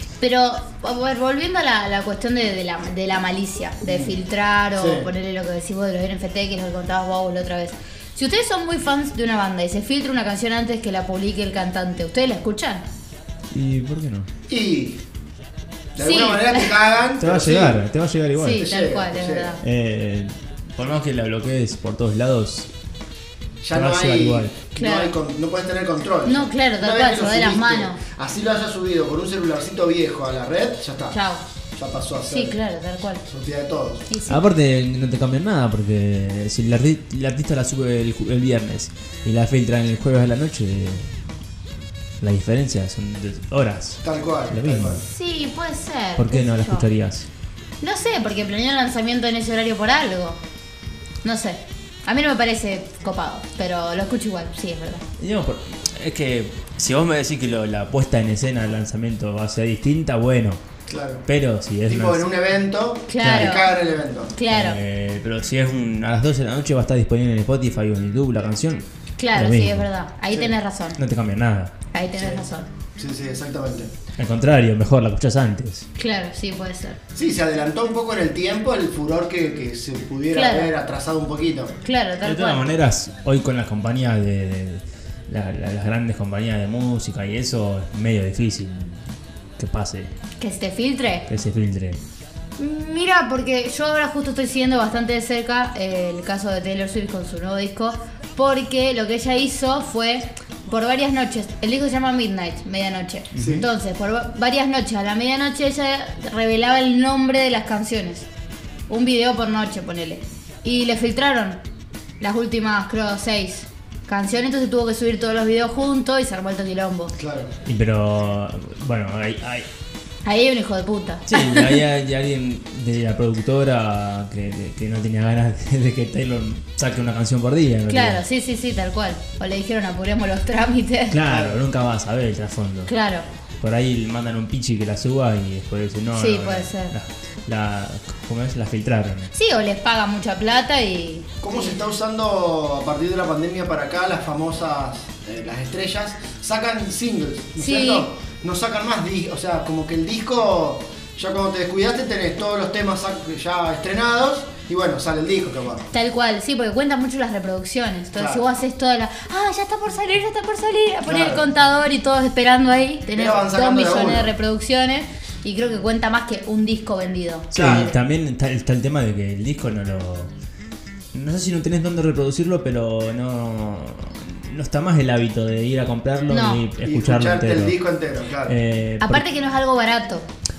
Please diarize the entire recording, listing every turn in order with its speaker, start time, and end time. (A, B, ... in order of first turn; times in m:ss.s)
0:00.2-0:12.8 A
0:03.8-0:04.2 B
0:04.8-0:05.1 B
0:13.5-0:14.3 C
0:14.5-0:15.0 B
0:15.9-0:17.8 B
0:16.0-0:16.8 A
0:17.2-0:18.6 C
0:18.4-0:19.6 A
0:18.5-0:19.6 B
0:19.6-0:22.7 C
0:23.6-0:31.2 B
0:23.7-0:24.5 C
0:24.8-0:25.1 A
0:26.2-0:28.0 A
0:31.1-0:31.4 A
0:31.8-0:32.6 B
0:32.3-0:33.2 A
0:33.2-0:34.1 B
0:34.1-0:34.4 A
0:34.3-0:41.1 C
0:42.2-0:45.0 C
0:44.0-0:45.0 B
0:45.0-0:46.9 A
0:46.2-0:47.3 C
0:47.8-0:50.4 A
0:51.2-0:55.0 A
0:55.2-1:00.6 C
1:00.9-1:01.2 B
1:01.2-1:02.3 C
1:01.8-1:04.4 B
1:03.1-1:03.7 A
1:03.2-1:03.6 C
1:04.3-1:04.8 A
1:04.5-1:09.9 C
1:09.2-1:11.0 A
1:11.0-1:11.7 C
1:11.9-1:12.7 A
1:12.2-1:12.4 B
1:13.0-1:13.9 B
1:14.2-1:15.8 C
1:16.0-1:17.0 A
1:17.1-1:21.7 B
1:20.3-1:20.7 A
1:21.8-1:22.7 A
1:22.2-1:29.0 C
1:29.6-1:30.1 C
1:30.4-1:31.3 A
1:31.3-1:32.0 C
1:32.6-1:48.3 A
1:43.3-1:43.7 C
1:43.4-1:43.7 B
1:48.9-1:51.6 A
1:52.2-1:57.1 A
1:57.2-1:57.5 B
1:57.6-1:59.6 C
2:00.2-2:01.8 A
2:01.3-2:08.2 C
2:07.9-2:11.2 A
2:11.1-2:12.9 C
2:11.2-2:11.6 B
2:12.9-2:13.2 A
2:13.6-2:19.3 C
2:16.1-2:16.9 A
2:19.3-2:21.7 A
2:21.4-2:35.9 B
2:27.6-2:28.1 A
2:35.9-2:48.0 A
2:38.1-2:38.4 B
2:41.0-2:41.5 B
2:43.1-2:44.3 B
2:47.5-2:50.3 C
2:47.5-2:47.9 B
2:51.1-2:57.8 C
2:56.3-2:56.6 A
2:56.8-2:58.6 B
2:58.4-2:59.2 C
2:59.0-3:00.2 A